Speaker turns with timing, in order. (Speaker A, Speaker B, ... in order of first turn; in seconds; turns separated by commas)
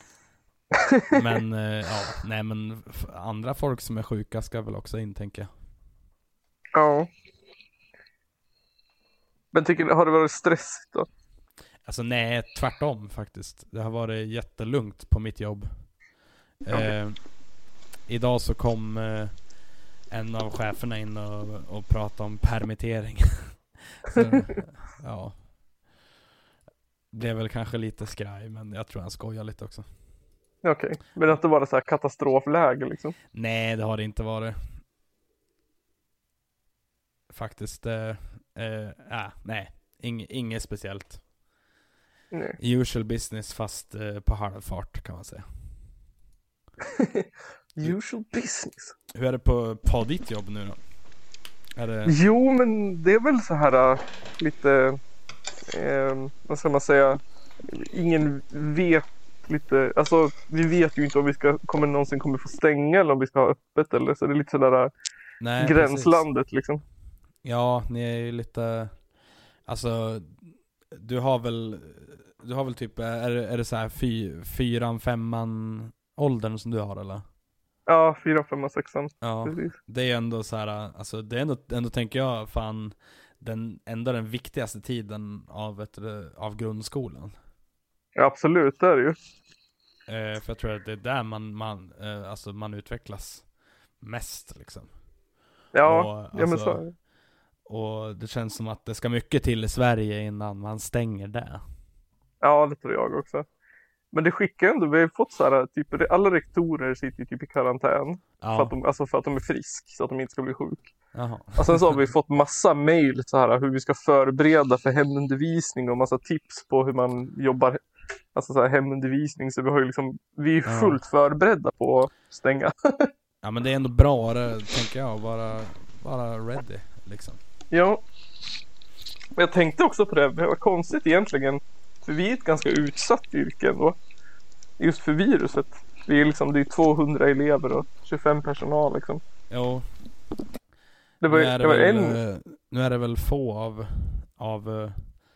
Speaker A: 0.7-1.1, Speaker B: 1.1-5.5, Speaker A: 6.7-7.1, Speaker A: 9.5-11.1, Speaker B: 11.8-15.7, Speaker B: 16.6-17.2, Speaker B: 18.1-19.3, Speaker B: 20.1-25.3, Speaker B: 27.1-29.9, Speaker A: 30.6-33.1, Speaker B: 33.3-34.6, Speaker B: 37.3-41.2, Speaker A: 42.3-42.6, Speaker B: 42.6-45.4, Speaker A: 46.9-48.9, Speaker B: 49.1-50.8, Speaker B: 51.8-52.2, Speaker A: 52.0-55.0, Speaker A: 55.7-64.9, Speaker B: 65.4-66.2, Speaker A: 65.6-66.8, Speaker B: 67.4-68.9, Speaker B: 69.7-70.3, Speaker B: 70.9-77.2, Speaker A: 77.9-79.7, Speaker B: 79.2-87.3, Speaker A: 88.2-89.2, Speaker B: 90.1-93.4, Speaker B: 94.0-94.9, Speaker A: 95.7-96.9, Speaker B: 95.8-96.8, Speaker B: 97.7-101.6, Speaker A: 102.4-103.5, Speaker A: 104.1-110.9, Speaker B: 108.4-108.7, Speaker B: 111.1-111.9, Speaker A: 111.5-123.1, Speaker B: 120.6-121.0, Speaker B: 123.4-127.4, Speaker A: 127.7-128.0, Speaker A: 129.3-134.0, Speaker A: 134.8-139.2, Speaker B: 139.5-139.8, Speaker A: 141.2-142.2, Speaker B: 141.2-145.1